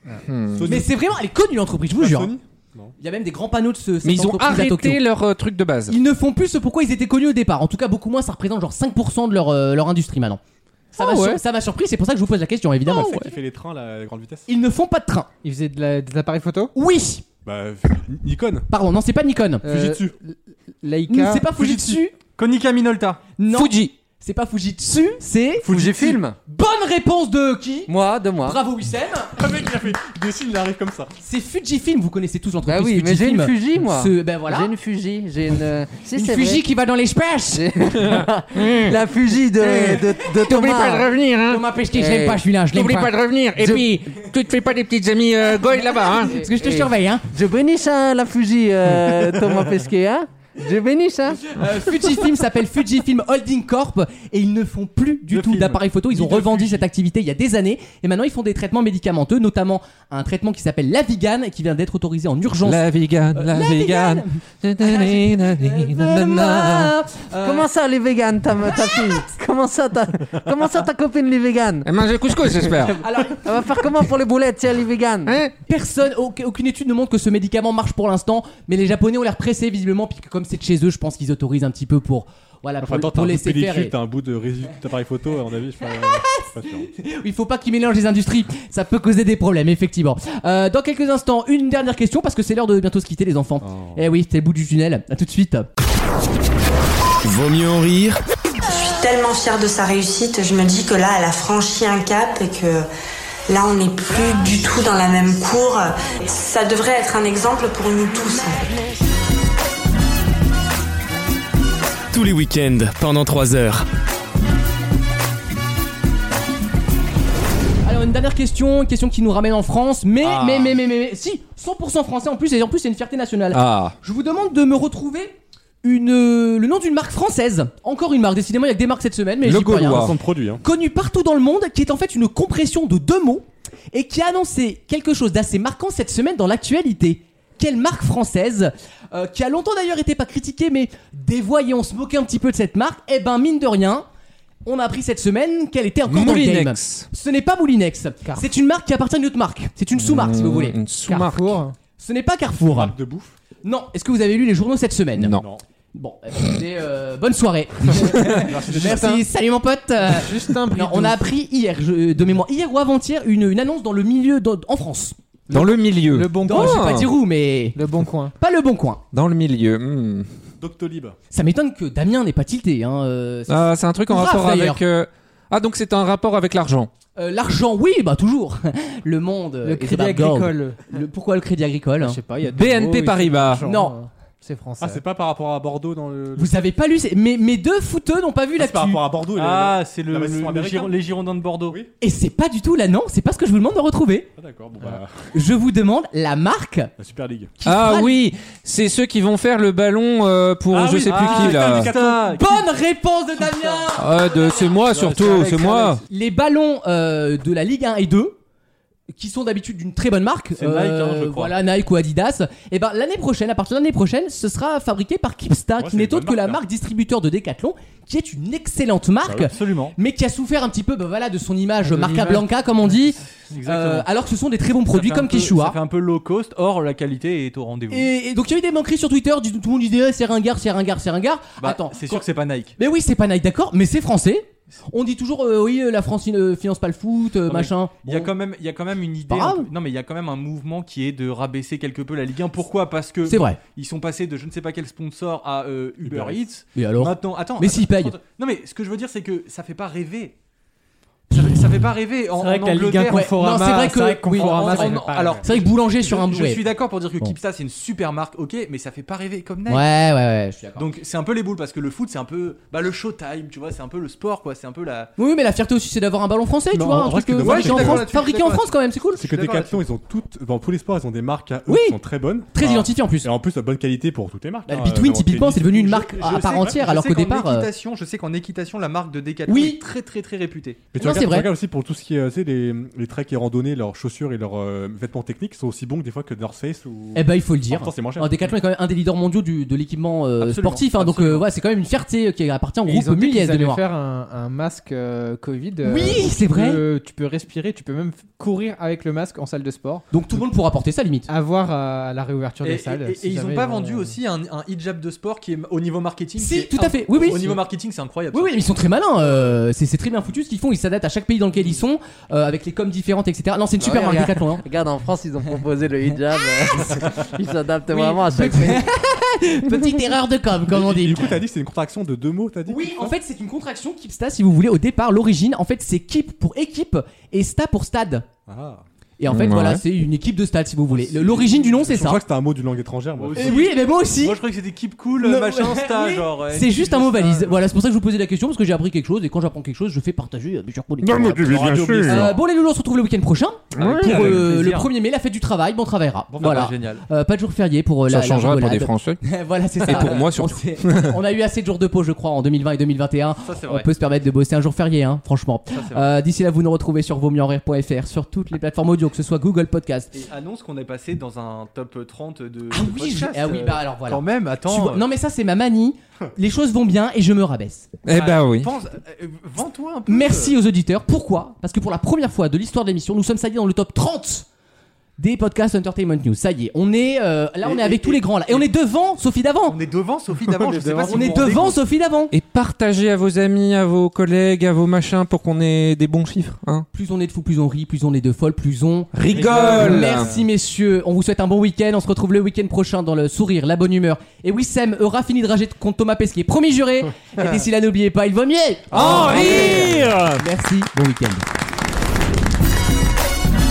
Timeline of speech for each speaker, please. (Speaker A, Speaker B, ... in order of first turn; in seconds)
Speaker A: 0.3-0.7, 4.0-6.0, 23.5-23.9, 38.0-39.0, 39.6-41.6, 42.7-46.4, 62.6-66.2, 71.8-73.0, 75.3-75.5, 123.5-124.0, 129.4-130.1, 146.1-147.1, 150.0-151.6, 155.2-155.4, 165.5-167.1, 169.1-170.3, 173.5-176.9, 182.5-183.7, 197.7-201.9, 204.0-206.0, 329.3-329.8, 341.0-342.2, 343.8-344.4, 348.1-349.2, 349.8-351.2, 368.1-368.7, 382.3-386.9, 389.1-390.3, 398.9-400.4
Speaker B: 0.5-0.9, 2.0-2.9, 12.9-14.5, 17.4-18.7, 19.6-20.1, 25.7-26.1, 29.4-31.1, 82.8-86.9, 93.6-94.0, 120.2-120.8, 129.5-130.6, 152.7-153.3, 155.4-155.6, 158.6-159.1, 170.6-171.2, 184.8-186.6, 188.6-191.0, 194.4-195.3, 197.0-197.5, 200.7-202.3, 215.8-216.6, 246.0-246.4, 266.7-268.1, 269.2-276.8, 280.9-288.4, 320.7-323.1, 328.5-328.8, 331.3-333.6, 341.4-342.4, 346.3-346.7
Speaker C: 0.7-2.4, 3.0-5.0, 5.9-10.4, 11.0-13.3, 14.5-15.3, 16.8-17.2, 18.7-19.6, 21.1-22.1, 23.4-25.7, 26.5-27.9, 28.4-29.3, 31.2-34.7, 36.1-37.7, 41.5-44.1, 46.0-47.2, 51.5-62.8, 63.3-67.7, 73.0-73.9, 75.7-83.9, 85.8-95.7, 117.8-144.1, 144.7-150.8, 152.0-152.9, 153.6-155.4, 155.9-165.2, 166.4-167.8, 168.4-169.0, 171.3-174.8, 177.2-182.2, 183.7-184.0, 186.4-189.0, 192.0-194.3, 195.3-196.9, 197.6-198.2, 201.9-204.7, 206.0-208.4, 209.1-225.8, 227.9-238.3, 239.3-239.7, 243.3-243.6, 246.8-248.2, 253.1-257.4, 259.7-260.9, 265.2-269.2, 271.7-272.0, 272.5-273.3, 274.7-277.7, 279.5-279.8, 281.0-281.5, 287.1-293.8, 295.8-296.8, 300.1-301.3, 306.4-307.6, 308.3-314.6, 317.9-321.4, 322.7-328.3, 329.2-332.2, 333.4-334.4, 335.2-341.5, 342.0-360.1, 362.7-367.9, 370.1-374.5, 375.2-379.8, 381.1-382.3, 386.9-401.5
Speaker D: 11.0-11.4, 15.4-16.7, 19.6-21.8, 151.1-151.8, 158.2-159.2, 160.0-161.3, 165.5-167.1, 167.8-168.3, 179.6-180.8, 182.0-185.0, 221.8-222.6, 252.3-255.5, 292.9-300.0, 301.3-304.2, 380.4-381.7
Speaker E: 22.2-23.2, 55.3-56.9, 189.3-191.8, 201.0-203.9, 204.8-206.0, 210.6-211.6, 219.4-220.0, 223.5-224.1, 224.9-228.1, 231.6-232.8, 237.5-250.4, 251.3-253.4, 254.3-259.9, 260.8-265.1, 267.4-269.8, 275.9-280.8, 290.4-291.5, 302.6-308.7, 309.2-309.5, 331.0-331.8, 333.2-337.7, 342.1-342.4, 343.8-344.9, 346.4-347.1, 349.9-350.2, 353.4-353.9, 355.7-356.2, 360.1-365.0, 368.1-370.6, 377.6-378.7, 379.7-381.8, 389.3-390.4, 398.9-400.0
Speaker F: 25.7-26.4, 27.9-28.6, 32.7-36.7, 37.5-41.1, 41.9-42.4, 46.3-51.6, 66.1-71.9, 72.6-75.3, 313.8-318.9
Speaker G: 97.2-98.2, 112.1-113.8
Speaker H: 98.7-102.9, 103.5-108.7, 112.8-113.8